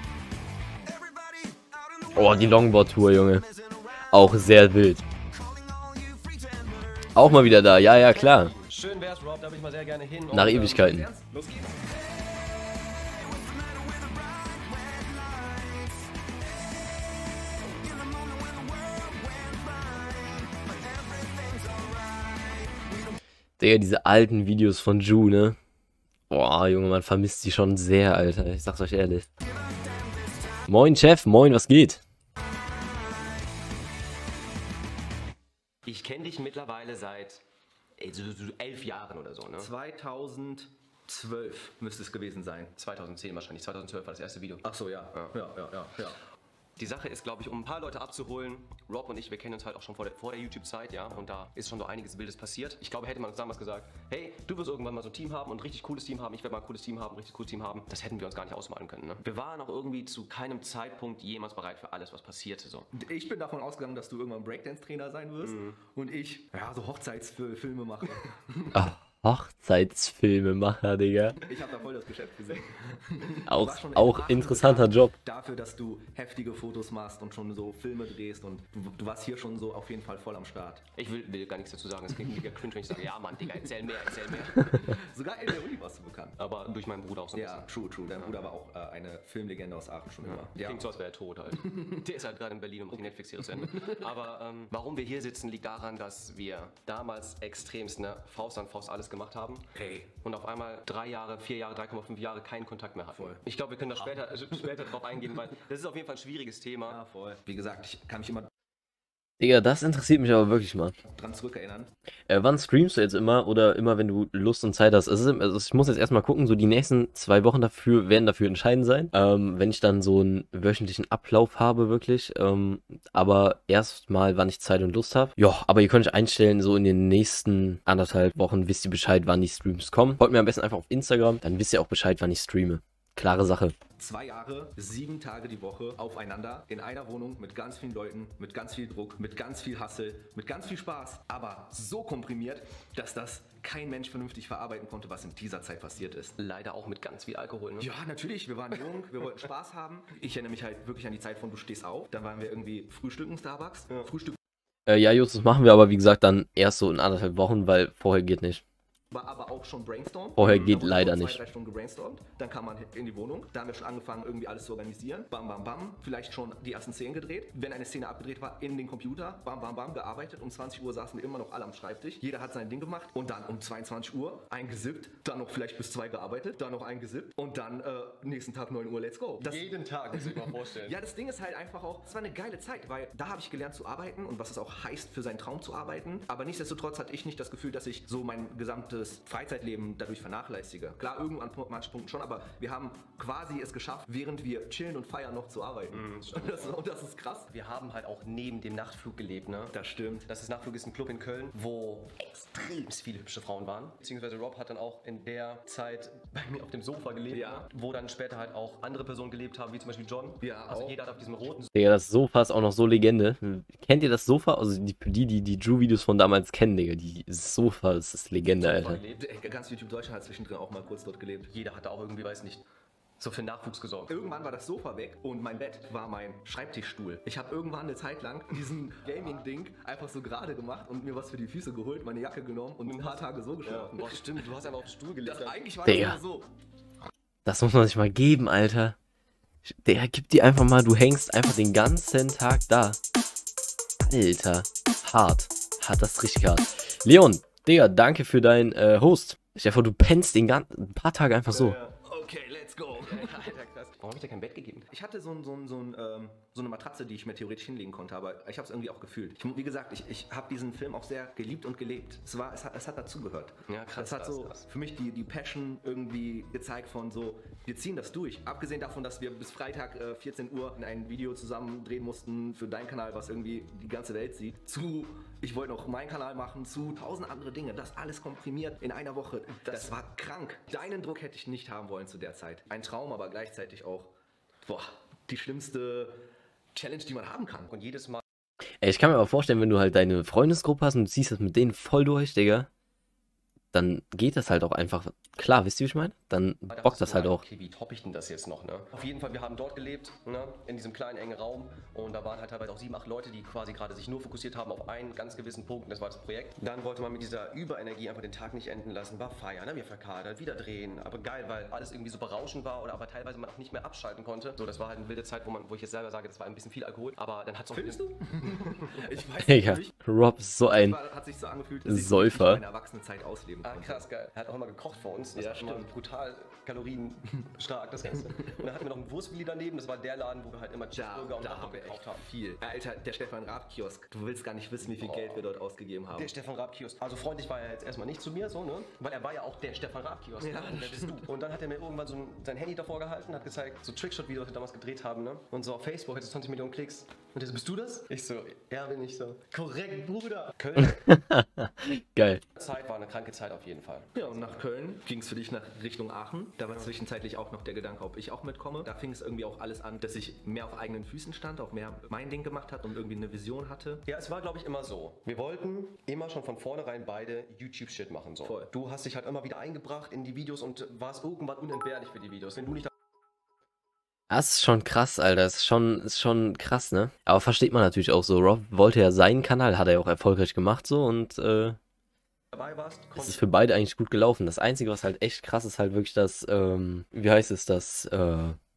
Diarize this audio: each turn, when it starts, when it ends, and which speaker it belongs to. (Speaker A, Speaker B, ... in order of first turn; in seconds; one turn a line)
Speaker A: 1.0-2.2
Speaker B: 2.1-3.5
Speaker B: 4.1-5.0
Speaker A: 5.7-6.9
Speaker B: 7.1-8.5
Speaker C: 8.6-10.7
Speaker B: 10.3-11.1
Speaker A: 10.3-12.0
Speaker A: 13.7-15.4
Speaker A: 18.0-20.1
Speaker A: 21.1-21.9
Speaker B: 23.6-25.6
Speaker B: 26.3-29.3
Speaker B: 30.7-32.0
Speaker C: 35.9-37.4
Speaker C: 38.0-39.7
Speaker A: 39.6-42.7
Speaker C: 42.8-45.6
Speaker A: 44.6-46.2
Speaker C: 46.8-62.9
Speaker A: 62.9-68.8
Speaker C: 65.4-65.8
Speaker B: 68.7-71.4
Speaker A: 71.5-80.9
Speaker B: 73.5-75.1
Speaker C: 81.0-84.9
Speaker A: 84.3-86.4
Speaker C: 86.4-88.4
Speaker A: 87.3-90.9
Speaker C: 90.2-99.7
Speaker A: 91.6-92.0
Speaker A: 92.9-94.0
Speaker A: 99.7-100.1
Speaker C: 100.2-107.0
Speaker A: 103.1-103.4
Speaker A: 104.0-104.7
Speaker A: 106.9-108.5
Speaker B: 109.4-111.0
Speaker A: 111.0-111.9
Speaker B: 112.3-133.8
Speaker A: 134.0-146.4
Speaker C: 146.4-147.9
Speaker A: 147.8-154.4
Speaker B: 154.9-158.6
Speaker A: 159.1-197.5
Speaker B: 160.4-161.4
Speaker C: 160.4-160.8
Speaker C: 179.4-181.0
Speaker C: 195.9-196.8
Speaker C: 197.5-211.7
Speaker A: 199.7-200.3
Speaker A: 207.3-207.7
Speaker A: 210.4-211.0
Speaker B: 211.8-219.0
Speaker C: 218.6-219.2
Speaker A: 219.2-221.5
Speaker C: 221.5-222.6
Speaker C: 223.2-224.2
Speaker A: 224.1-234.4
Speaker C: 232.8-235.7
Speaker A: 235.2-236.5
Speaker B: 235.8-236.2
Speaker B: 237.4-239.0
Speaker B: 239.7-243.0
Speaker B: 244.0-251.8
Speaker C: 251.5-251.9
Speaker A: 252.0-253.5
Speaker C: 253.0-254.9
Speaker A: 254.9-284.1
Speaker C: 263.7-264.7
Speaker C: 279.7-279.9
Speaker A: 284.6-286.2
Speaker A: 286.7-287.7
Speaker C: 287.7-288.2
Speaker B: 288.8-292.7
Speaker B: 293.7-297.4
Speaker C: 296.7-319.1
Speaker A: 317.7-320.1
Speaker B: 319.4-321.0
Speaker A: 320.6-324.1
Speaker B: 321.9-322.6
Speaker C: 323.6-332.2
Speaker A: 325.4-325.9
Speaker A: 330.9-336.3
Speaker C: 334.8-335.5
Speaker C: 336.1-351.1
Speaker A: 340.4-341.2
Speaker B: 350.8-352.4
Speaker C: 352.6-354.6
Speaker A: 354.1-364.1
Speaker C: 364.1-372.9
Speaker A: 368.4-368.7
Speaker B: 374.3-381.8
Speaker C: 382.5-383.5
Speaker B: 383.2-388.6